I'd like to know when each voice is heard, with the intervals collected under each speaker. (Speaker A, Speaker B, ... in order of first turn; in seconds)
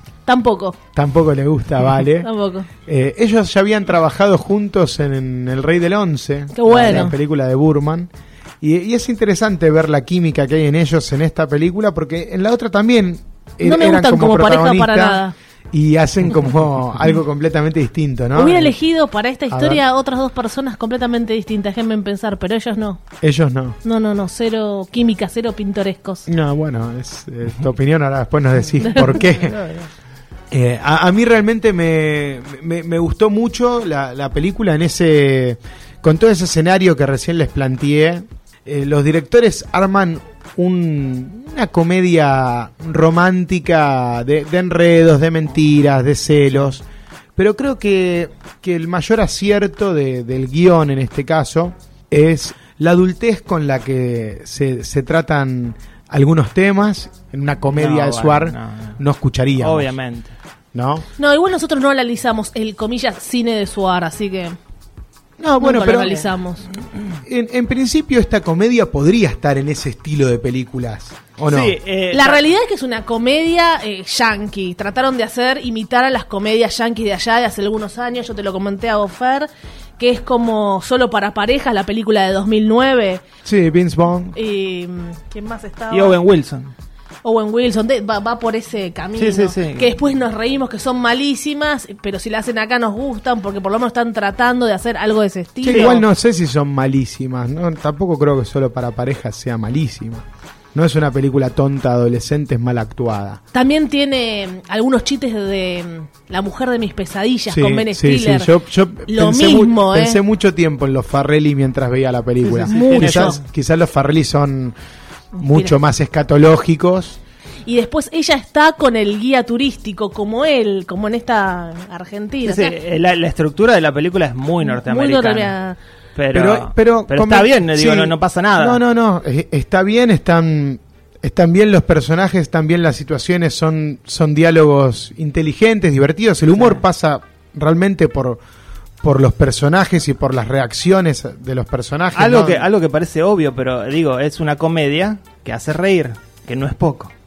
Speaker A: 0.2-0.8, 2.2-2.7, 6.5-7.1, 13.6-15.3, 18.3-23.0, 23.8-26.3, 61.2-64.6, 65.6-66.7, 72.1-83.2, 84.3-86.2, 87.2-96.0, 103.5-108.5, 109.1-110.2, 112.7-113.4, 115.3-115.7, 117.7-122.8, 124.6-125.8
Speaker B: 0.9-2.3, 2.8-8.1, 8.6-18.7, 19.5-19.8, 23.2-23.8, 26.3-29.6, 30.5-46.8, 47.4-59.9, 60.7-61.0, 65.4-66.2, 67.2-71.8, 83.4-84.3, 95.6-103.4, 107.5-114.8, 115.4-117.2, 126.3-138.4, 139.0-142.7
Speaker C: 29.2-29.9, 57.7-59.0, 59.6-60.3, 71.5-72.5, 85.9-86.7, 89.2-89.9, 95.7-96.0, 112.4-113.4, 122.4-125.5, 126.1-128.8, 142.1-147.1